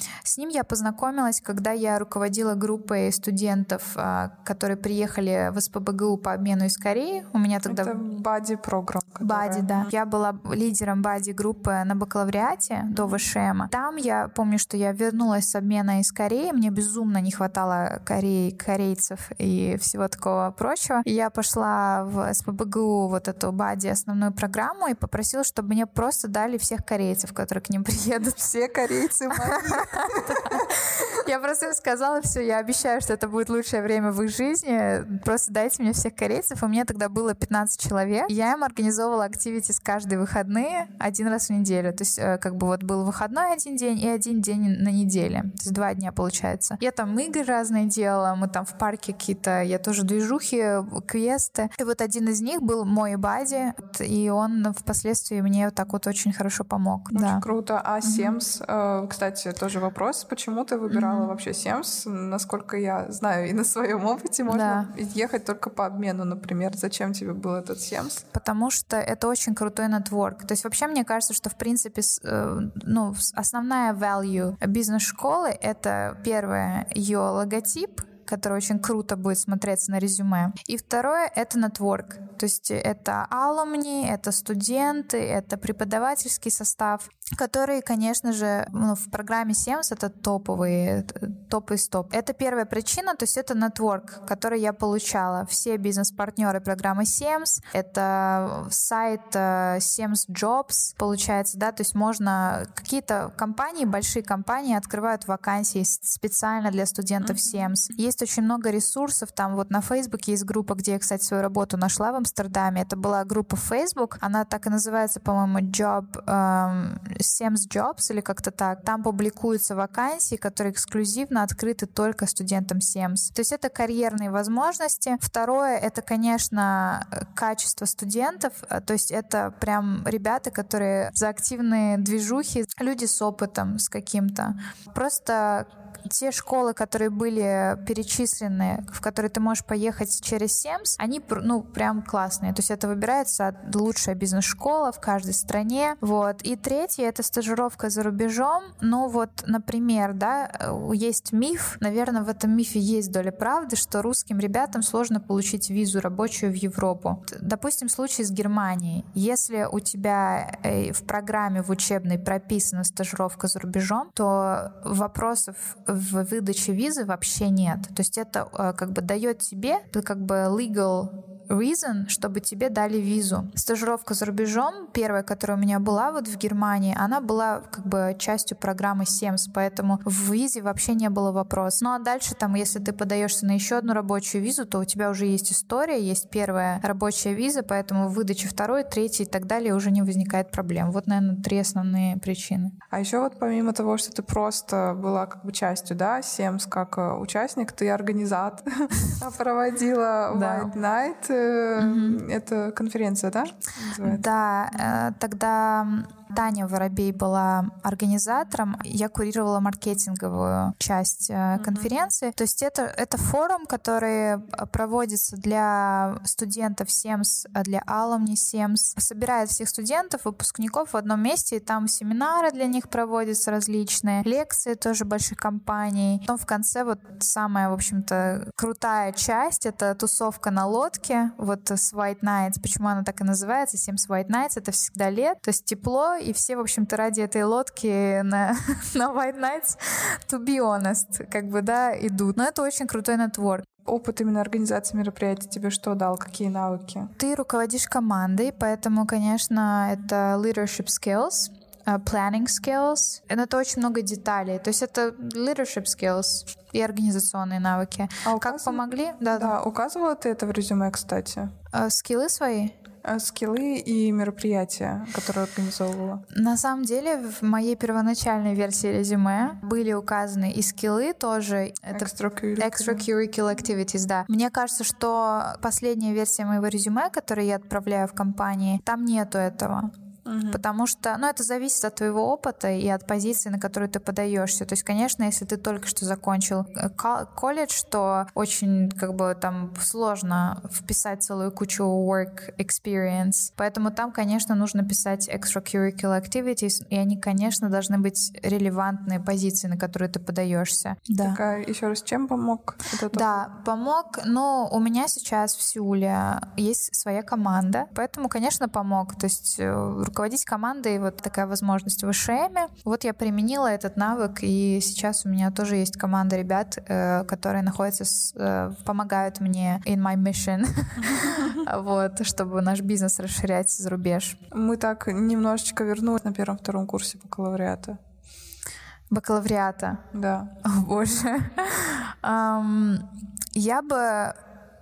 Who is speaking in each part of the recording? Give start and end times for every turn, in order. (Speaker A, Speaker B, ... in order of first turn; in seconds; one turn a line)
Speaker A: 0.2-8.0
Speaker B: 7.6-9.9
Speaker A: 9.2-57.4
Speaker B: 12.9-13.2
Speaker B: 28.6-30.6
Speaker B: 57.1-68.2
Speaker A: 58.0-58.4
Speaker A: 60.9-61.3
Speaker A: 64.5-64.9
Speaker A: 68.3-192.7
Speaker B: 107.2-107.5
Speaker B: 192.9-204.2
Speaker A: 200.3-200.7
Speaker A: 201.8-202.2
Speaker A: 204.0-243.7
Speaker B: 211.6-211.9
Speaker B: 243.8-247.1
Speaker A: 247.2-259.6
Speaker B: 258.2-261.5
Speaker A: 261.7-262.8
Speaker B: 263.0-266.2
Speaker A: 266.3-279.9
Speaker B: 271.9-273.0
Speaker B: 280.2-280.6
Speaker A: 280.4-301.4
Speaker B: 301.2-303.4
Speaker A: 303.1-324.4
Speaker B: 321.1-321.6
Speaker B: 324.5-328.0
Speaker A: 329.1-330.1
Speaker B: 330.1-330.6
Speaker A: 330.6-334.4